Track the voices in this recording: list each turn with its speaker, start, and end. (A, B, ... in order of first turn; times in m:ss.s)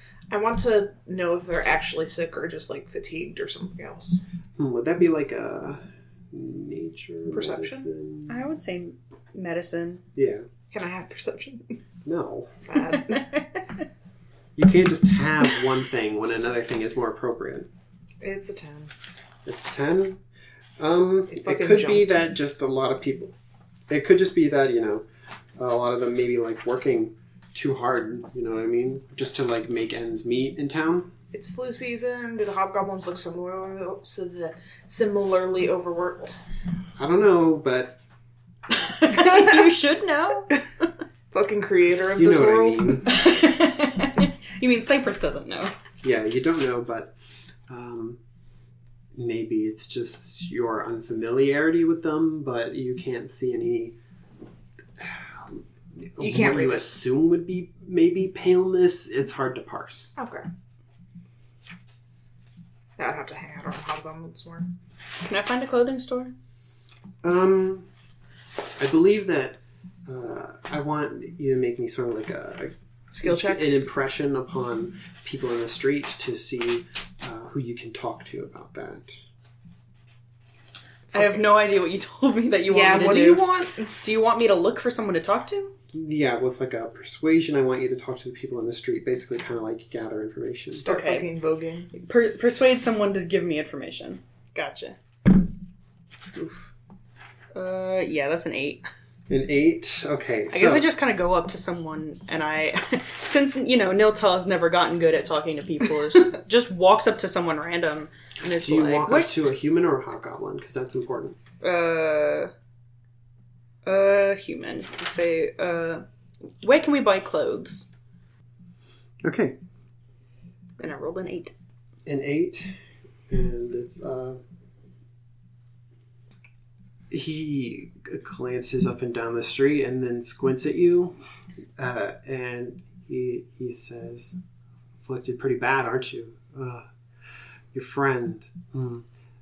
0:00.3-0:04.2 A
0:04.6-0:08.3 B
0:07.3-0:07.9 A
0:08.3-0:10.0 C
0:10.1-0:10.5 B
0:10.7-0:11.8 A
0:12.0-0:12.6 B
0:12.6-0:13.3 A
0:13.0-0:13.6 C
0:14.6-0:17.7 B
0:18.2-0:18.9 A
0:19.4-0:20.2 B
0:20.8-0:23.3 B
0:21.3-0:22.2 A
0:23.9-0:25.0 B
0:25.6-0:31.1 B
0:31.3-0:36.4 A
0:37.0-0:38.0 B
0:38.7-0:40.5 C
0:39.1-0:39.6 A
0:41.3-0:43.0 A
0:42.2-0:43.1 B
0:43.0-0:45.7 C
0:46.0-0:47.1 B
0:47.7-0:48.2 B
0:49.2-0:54.0 B
0:55.0-0:55.6 B
0:56.2-1:00.1 B
0:56.2-0:56.9 A
1:00.2-1:00.4 A
1:03.0-1:04.7 A
1:05.2-1:06.3 C
1:07.2-1:07.9 B
1:08.8-1:19.2 B
1:13.1-1:13.6 A
1:21.1-1:23.4 C
1:22.7-1:23.9 A
1:24.0-1:25.7 C
1:25.9-1:30.8 B
1:30.7-1:31.9 A
1:30.8-1:31.3 C
1:31.9-1:35.0 C
1:36.4-1:36.6 B
1:37.5-1:38.8 C
1:39.3-1:40.9 B
1:40.5-1:49.3 C
1:48.5-1:51.4 B
1:51.6-1:52.5 C
1:53.8-1:56.0 C
1:56.6-1:57.9 C
1:59.2-1:59.6 B
2:00.8-2:01.5 C
2:02.0-2:02.7 B
2:03.3-2:04.4 B
2:07.1-2:11.1 B
2:11.8-2:14.4 B
2:15.0-2:16.8 B
2:17.7-2:19.0 B